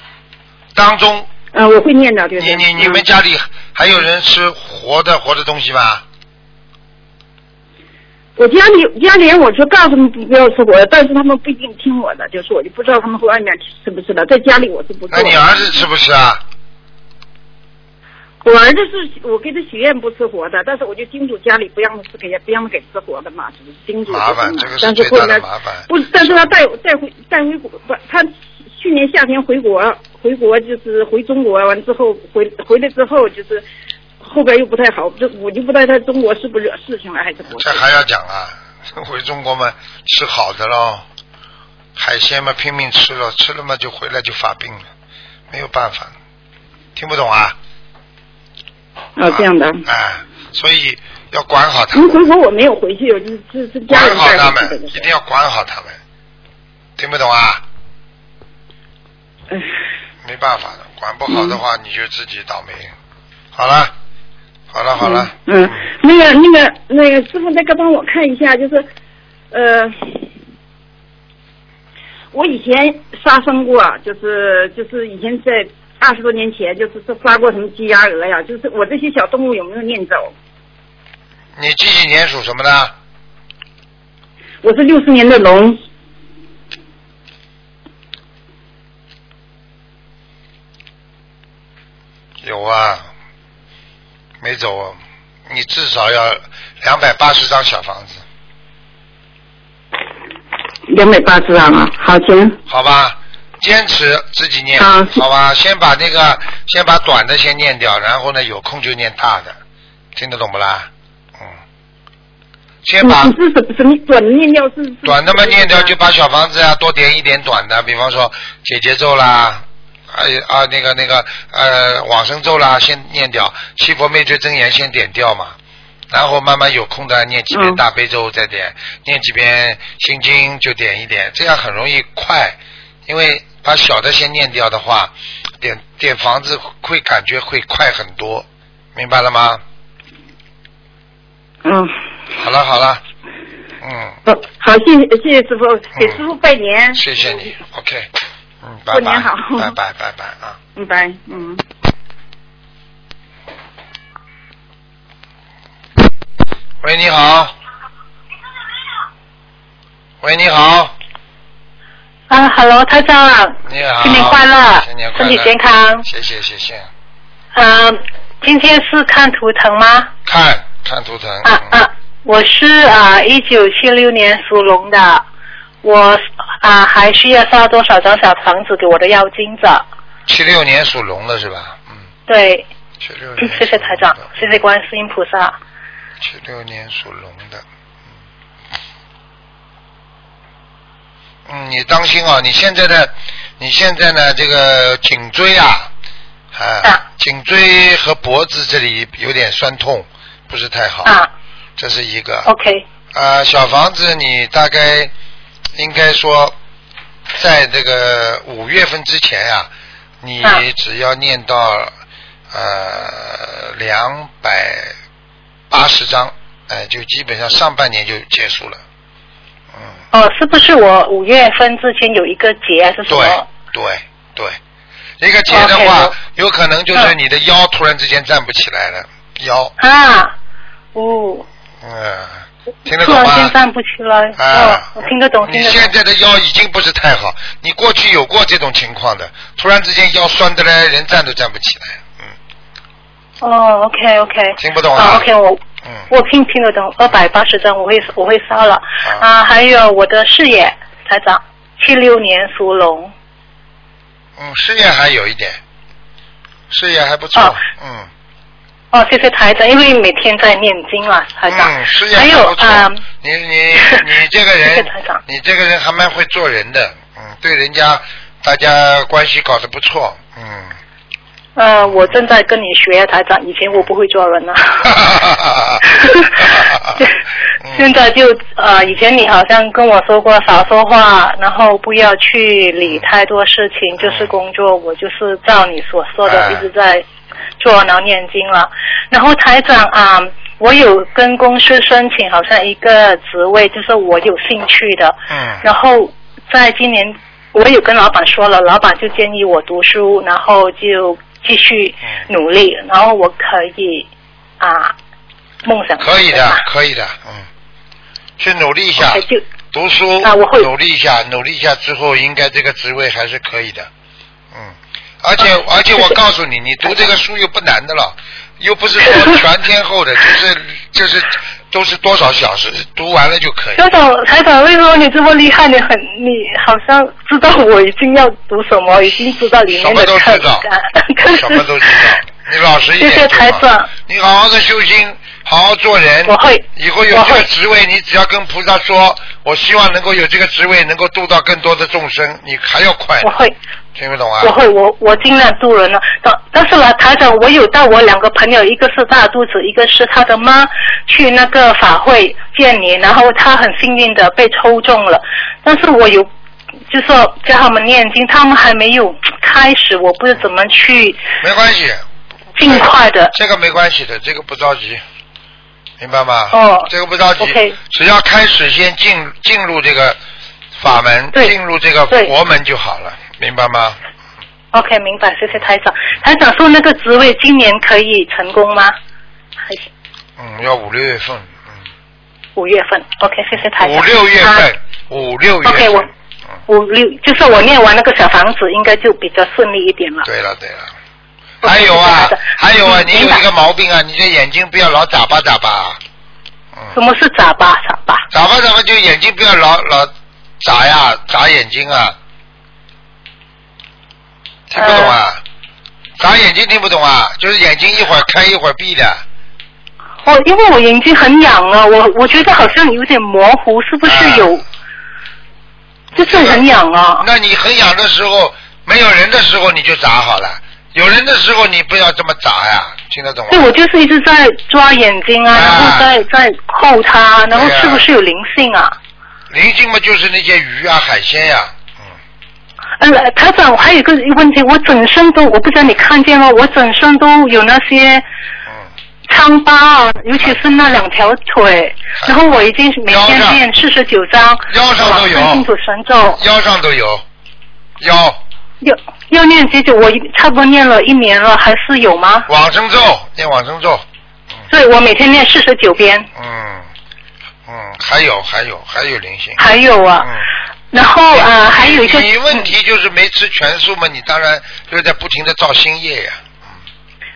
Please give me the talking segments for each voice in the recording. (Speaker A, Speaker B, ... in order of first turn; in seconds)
Speaker A: 0.7-1.3, 2.4-6.0, 15.1-16.4, 24.1-26.4, 37.6-41.0, 42.0-44.9, 45.5-46.1, 47.0-47.5, 49.3-52.3, 53.9-56.0, 57.0-57.6, 60.2-62.9, 63.5-63.9, 64.7-65.8, 81.5-82.9, 92.4-93.0, 94.4-98.2, 102.7-109.6, 110.2-110.9, 112.8-113.3, 115.0-125.5, 126.1-139.6, 142.4-143.0, 143.8-144.2, 145.9-146.2, 146.9-148.1, 148.6-150.6, 156.8-157.5, 160.2-160.9, 163.6-166.9, 170.2-171.8, 180.3-182.0, 183.0-184.6, 186.2-187.6, 191.5-195.9, 196.5-201.1, 201.8-202.5, 203.1-205.1, 205.8-206.5, 207.3-209.7, 210.2-211.9, 212.5-214.9, 215.7-218.8, 223.1-224.6, 225.2-229.7, 231.8-233.5, 234.4-234.9, 235.4-242.3, 244.6-245.2, 254.4-255.6, 256.7-258.1, 261.5-270.7, 274.8-275.8, 276.4-277.0, 277.6-277.9, 284.0-284.3, 286.2-286.7, 295.3-295.6, 306.0-307.5, 308.4-313.9, 314.5-323.8, 329.7-330.6, 331.2-343.3, 343.9-344.5, 361.4-362.0, 362.6-365.0, 366.0-370.2, 370.8-374.0, 380.4-381.7, 383.8-386.1, 390.2-390.9, 391.6-396.0, 398.3-402.1, 404.7-405.4, 406.2-409.2, 414.1-414.5, 416.1-416.7, 417.2-423.7, 425.5-426.1, 427.5-428.1, 429.5-431.9, 443.1-443.6, 444.7-445.7, 446.4-447.2, 448.0-448.4, 452.5-454.0, 456.4-456.9, 457.6-459.6, 460.2-460.4, 461.3-466.6
Speaker B: 1.5-3.0, 8.4-15.8, 18.4-33.6, 34.2-37.8, 49.2-49.8, 51.9-55.0, 61.3-61.6, 65.0-68.8, 69.5-70.3, 72.3-80.3, 84.6-85.8, 100.9-102.6, 104.8-105.2, 113.0-115.9, 127.5-127.8, 141.6-141.9, 144.2-147.3, 148.9-149.7, 150.8-151.6
Speaker C: 162.3-166.1, 167.5-170.1, 171.4-175.2, 175.8-179.8, 182.3-182.7, 183.4-185.6, 201.0-201.3, 202.4-202.8, 220.1-223.5, 225.5-226.2, 229.8-230.3, 230.9-231.5, 232.9-235.9, 243.4-253.1, 258.9-263.0, 264.7-265.2, 271.6-275.0, 275.8-277.1, 277.7-287.0, 287.6-304.1, 304.6-304.9, 305.6-306.6, 309.0-309.4, 310.2-310.7, 323.8-332.0, 333.0-333.9, 336.2-337.5, 343.2-343.5, 344.4-356.3, 356.9-361.2, 362.6-363.3, 366.5-367.8, 374.7-378.9, 382.6-384.7, 385.6-386.1, 386.7-390.3, 391.6-393.4, 396.9-398.2, 404.8-405.2, 410.2-414.6, 416.1-417.2, 423.5-428.9, 433.0-438.2, 439.3-446.4, 448.8-452.5, 454.7-456.3, 459.6-460.3, 460.9-462.7